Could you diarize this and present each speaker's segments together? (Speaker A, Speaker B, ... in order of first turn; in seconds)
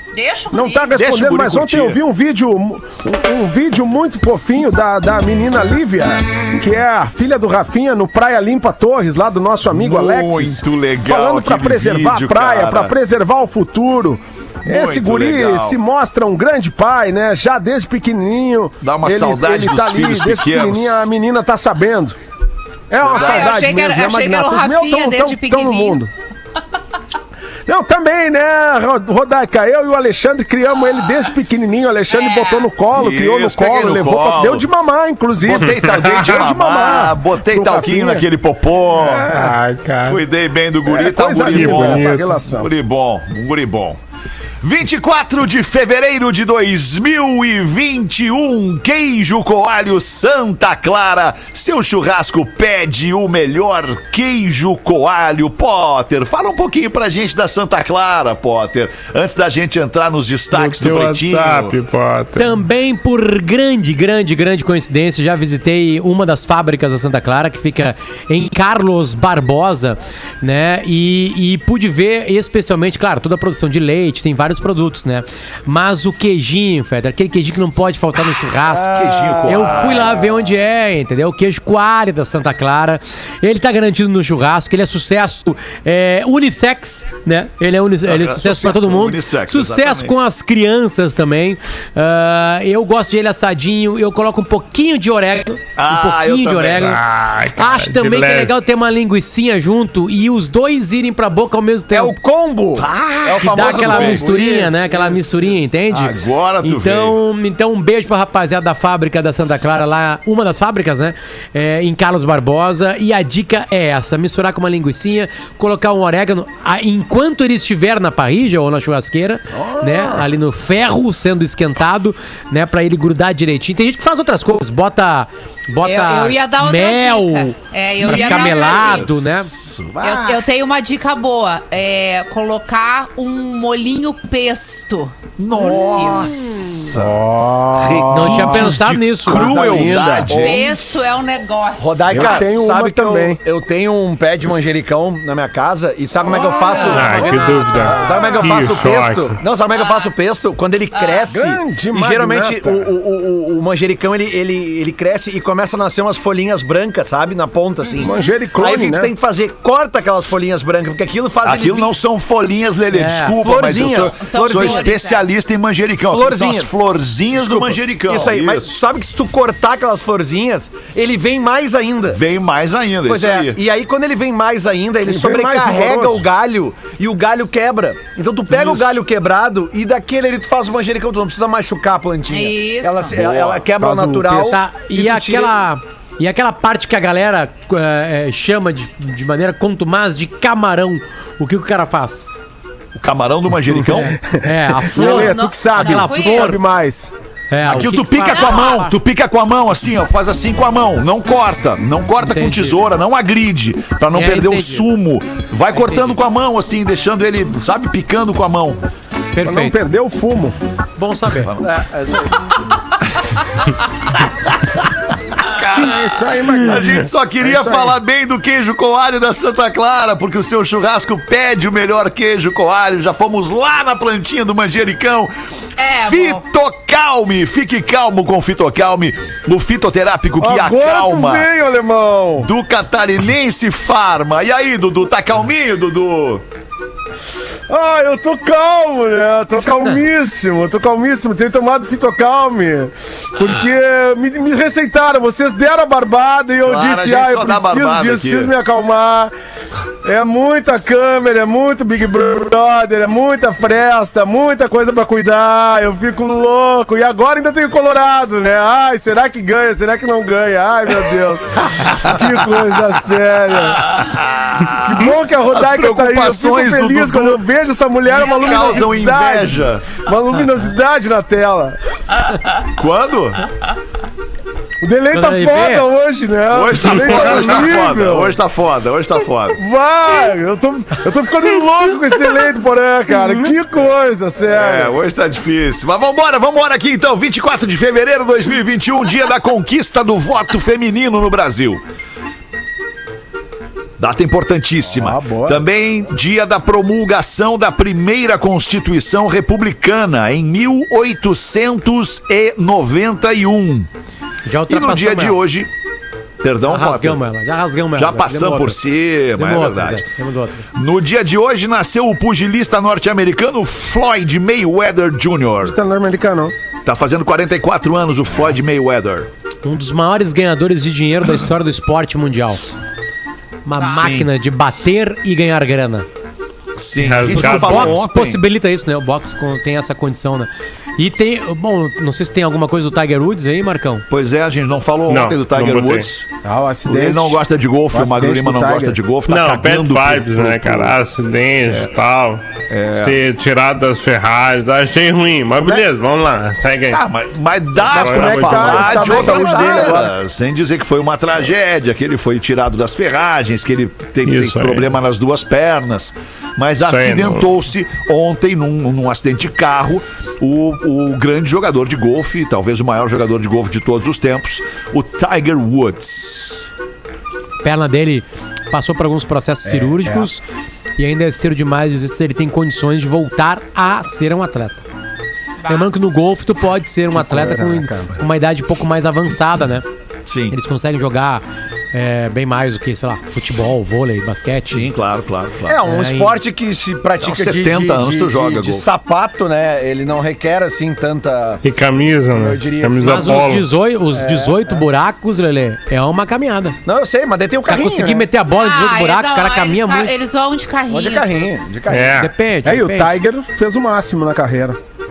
Speaker A: 0.1-0.9, 23.1-26.0, 32.1-32.7, 125.8-129.1, 130.0-136.4, 139.8-142.5, 149.7-150.1, 150.9-151.3, 163.8-165.3, 182.3-183.1, 194.9-196.6, 198.3-198.9, 225.8-226.4, 268.1-268.9, 375.6-375.9, 398.5-401.5
Speaker B: 0.5-22.1, 22.9-26.1, 27.7-38.3, 38.9-39.5, 40.9-42.7, 137.0-140.3, 142.1-143.4, 151.3-152.8, 158.0-159.1, 175.1-176.2, 183.8-184.5, 193.7-197.1, 209.4-210.6, 215.7-218.0, 230.4-232.5, 237.7-249.3, 250.0-264.0, 264.7-271.8, 274.8-278.4, 279.6-284.9, 294.8-295.6, 315.6-316.5, 336.4-339.0, 347.9-350.1, 369.6-370.3, 377.1-378.2, 402.6-404.8
Speaker C: 0.9-2.0, 9.7-12.9, 14.6-15.8, 18.8-21.1, 23.0-23.5, 32.9-34.6, 35.4-39.4, 40.1-44.0, 44.6-61.7, 78.8-80.2, 88.0-90.1, 95.8-96.9, 102.8-104.2, 105.9-107.2, 119.5-120.2, 128.0-130.4, 135.4-140.7, 161.4-168.7, 172.1-173.6, 178.5-178.8, 183.1-183.6, 192.9-194.2, 197.6-208.8, 211.4-211.7, 214.1-216.0, 216.5-225.3, 226.0-231.5, 232.4-236.4, 246.6-248.5, 261.8-262.2, 263.8-267.4, 268.1-269.9, 272.8-273.4, 276.5-279.6, 284.5-291.8, 294.0-303.9, 304.7-305.7, 306.4-307.2, 307.9-310.0, 310.7-315.8, 316.8-319.3, 323.8-324.3, 326.8-328.4, 334.1-336.2, 336.9-341.0, 342.7-343.2, 346.9-366.7, 380.3-380.5, 384.7-385.8, 387.2-388.9
Speaker D: 39.3-40.2, 41.4-42.4, 60.5-62.6, 96.8-98.5, 146.8-149.4, 327.0-328.0, 335.1-336.1, 339.3-342.4, 342.9-347.0, 347.8-349.5, 354.2-354.9, 356.8-357.5, 391.6-393.7, 401.9-402.3
Speaker E: 62.4-97.0, 97.6-102.2, 103.5-129.5, 138.1-139.4, 162.9-163.3, 184.3-192.2, 193.9-196.6, 197.5-198.9, 202.2-202.8, 204.1-204.9, 205.7-206.2, 209.3-209.8, 211.0-211.5, 275.1-275.9, 304.4-305.4, 306.7-308.8, 309.3-310.7, 319.6-322.6, 323.6-326.1, 327.3-334.1, 367.6-370.4, 371.0-374.8, 375.7-379.8, 380.5-384.9, 385.9-386.3, 393.0-396.8, 397.7-400.1, 402.1-403.1
Speaker F: 78.8-80.2, 101.9-105.5, 139.3-140.7, 141.8-161.9, 163.4-164.9, 166.0-166.8, 167.3-172.2, 173.1-185.6, 211.6-212.5, 349.3-350.0, 385.6-391.6, 392.3-393.5, 394.1-394.8, 396.8-398.3, 400.9-402.2